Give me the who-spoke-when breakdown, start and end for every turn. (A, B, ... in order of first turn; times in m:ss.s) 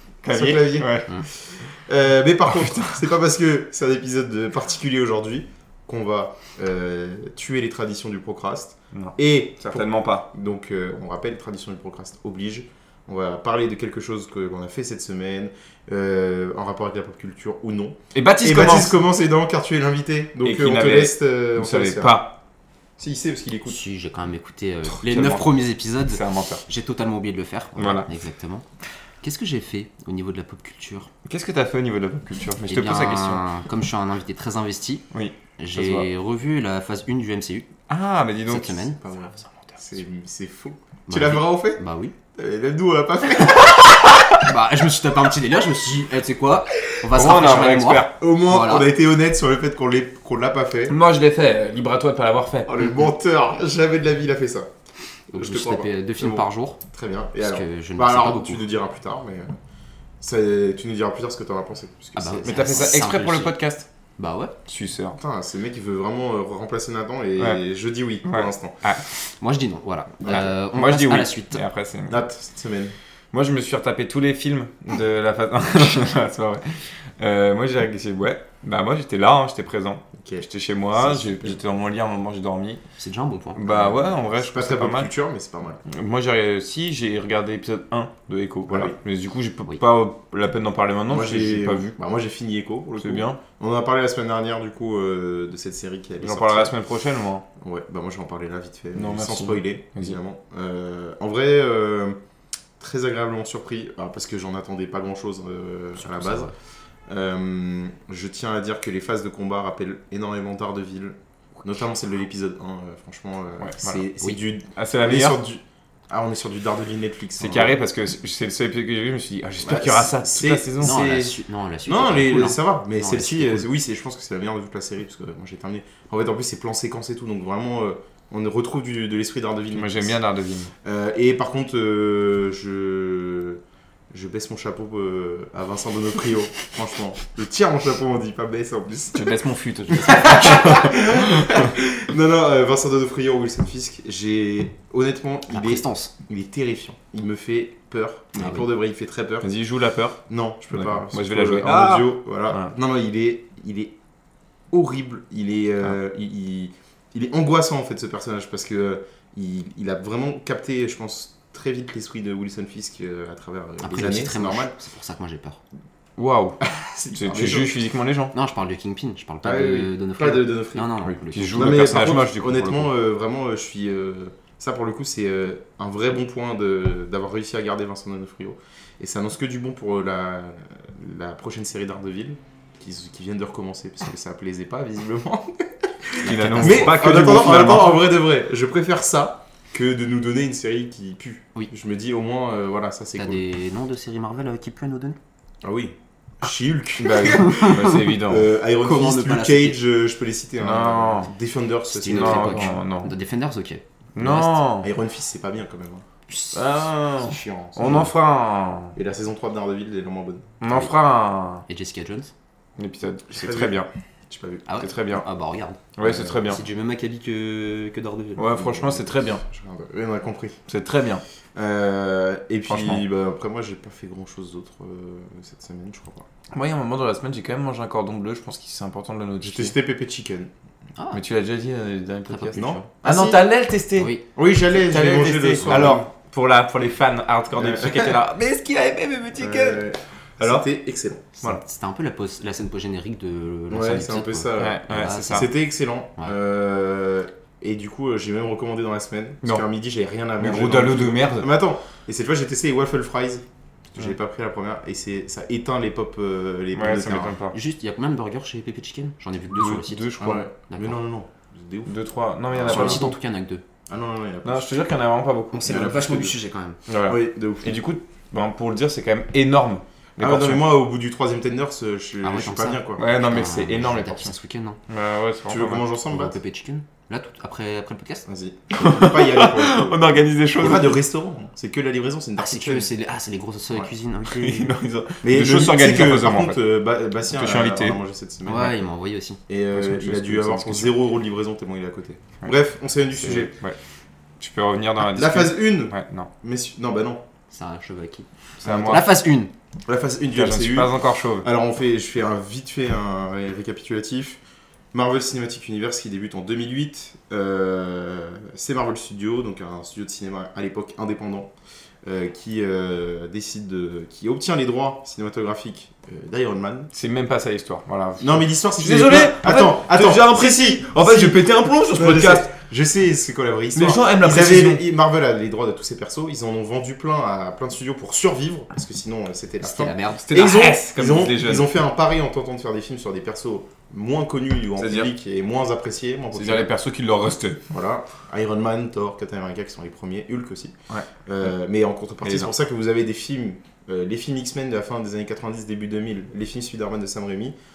0:00.2-0:01.1 A
0:00.2-0:22.2 B
0:02.5-0:03.0 A
0:08.9-0:10.3 A
0:18.1-0:19.0 A
0:20.4-0:22.4 A
0:23.0-0:23.8 B
0:23.7-0:28.6 C
0:25.0-0:25.6 A
0:26.1-0:26.6 A
0:27.8-0:28.1 A
0:29.2-0:31.1 C
0:31.2-0:33.4 A
0:32.7-0:35.1 C
0:35.1-0:36.1 A
0:35.6-0:37.7 C
0:37.9-0:39.7 A
0:38.5-0:39.0 C
0:39.0-0:41.8 B
0:41.1-0:42.1 C
0:42.3-0:44.1 B
0:44.4-0:48.9 C
0:47.1-0:48.2 A
0:48.2-0:51.0 B
0:50.9-0:52.8 A
0:52.7-0:54.7 B
0:55.3-0:56.8 C
0:55.3-0:59.5 B
0:57.4-0:58.6 C
1:00.2-1:03.0 B
1:02.2-1:03.6 C
1:02.4-1:03.9 A
1:04.2-1:04.6 C
1:04.7-1:05.2 A
1:05.2-1:08.8 B
1:07.4-1:07.6 A
1:08.2-1:09.1 A
1:09.4-1:11.6 C
1:10.2-1:10.5 B
1:10.3-1:12.2 A
1:12.1-1:13.0 B
1:13.3-1:22.8 A
1:20.1-1:21.6 B
1:23.0-1:24.1 C
1:23.6-1:25.1 A
1:24.3-1:25.8 B
1:25.9-1:31.9 A
1:28.7-1:29.0 B
1:31.1-1:36.7 B
1:33.0-1:33.4 A
1:36.2-1:37.4 A
1:37.6-1:42.2 B
1:39.0-1:40.2 A
1:42.8-1:46.5 B
1:46.0-1:46.5 C
1:47.1-1:57.8 B
1:53.6-1:54.1 A
1:54.8-1:55.4 A
1:57.4-2:01.1 A
1:59.6-2:01.3 B
2:00.8-2:03.7 C
2:01.8-2:10.2 B
2:09.7-2:10.7 A
2:10.8-2:19.3 B
2:19.1-2:21.7 A
2:19.9-2:29.5 B
2:25.5-2:26.1 C
2:28.4-2:28.7 C
2:29.4-2:30.2 A
2:30.3-2:34.0 B
2:30.7-2:32.7 A
2:34.7-2:44.7 B
2:43.8-2:45.6 C
2:46.2-2:46.6 A
2:46.6-2:47.7 B
2:47.1-2:48.3 A
2:48.3-2:51.9 C
2:49.4-2:51.0 B
2:51.0-2:52.9 A
2:51.5-3:13.4 B
3:06.2-3:07.0 C
3:06.2-3:08.0 A
3:13.2-3:15.2 C
3:15.6-3:22.8 B
3:17.0-3:18.5 A
3:18.8-3:19.8 C
3:20.6-3:21.3 A
3:21.9-3:24.6 C
3:22.0-3:23.1 A
3:24.2-3:24.9 A
3:24.8-3:26.0 B
3:26.3-3:26.6 C
3:26.5-3:29.0 A
3:27.2-3:28.1 B
3:29.0-3:30.5 B
3:30.6-3:31.6 A
3:31.7-3:32.3 C
3:32.8-3:33.9 A
3:33.3-3:33.8 B
3:34.3-3:34.7 B
3:34.7-3:35.9 C
3:34.8-3:35.3 A
3:36.0-3:36.6 A
3:36.0-3:36.6 B
3:36.4-3:39.1 C
3:38.4-3:39.4 A
3:39.4-3:40.6 B
3:40.7-3:41.2 A
3:41.5-3:46.3 B
3:42.7-3:43.0 A
3:46.5-3:49.7 A
3:49.4-3:50.5 B
3:51.1-3:54.2 A
3:52.3-3:52.9 C
3:52.5-3:53.5 B
3:54.4-3:56.0 B
3:54.7-4:00.7 A
3:57.6-3:58.2 B
3:59.4-4:01.3 B
4:01.4-4:05.5 C
4:03.7-4:17.4 B
4:04.6-4:05.5 A
4:10.4-4:11.5 A
4:16.7-4:17.6 A
4:17.5-4:20.2 C
4:19.5-4:20.4 A
4:20.2-4:22.0 B
4:20.7-4:21.0 C
4:21.9-4:23.1 A
4:22.5-4:23.1 B
4:22.6-4:23.6 C
4:23.9-4:24.8 B
4:24.4-4:26.3 A
4:25.5-4:26.8 C
4:25.6-4:26.3 B
4:26.9-4:30.7 A
4:27.1-4:27.8 B
4:30.2-4:33.0 B
4:32.2-4:34.8 C
4:33.0-4:34.4 A
4:34.9-4:35.9 A
4:35.5-4:36.4 B
4:36.1-4:38.3 C
4:38.2-4:42.9 B
4:38.7-4:41.0 A
4:42.4-4:44.7 C
4:44.3-4:46.6 A
4:45.2-4:48.8 B
4:47.3-4:48.0 A
4:48.4-4:50.8 C
4:49.5-4:53.5 B
4:53.2-4:53.8 A
4:54.4-4:56.3 A
4:55.0-4:57.2 B
4:57.5-4:58.3 C
4:58.6-4:59.1 A
4:58.6-4:59.1 B
4:58.9-4:59.5 C
4:59.9-5:04.4 B
5:00.4-5:01.5 A
5:04.9-5:11.5 B
5:12.0-5:16.9 B
5:16.9-5:22.5 A
5:18.2-5:36.7 B
5:23.8-5:24.8 A
5:29.6-5:30.5 C
5:30.2-5:31.7 A
5:34.8-5:35.1 A
5:36.3-5:37.6 A
5:37.7-5:40.8 B
5:41.2-5:47.6 B
5:42.2-5:42.5 A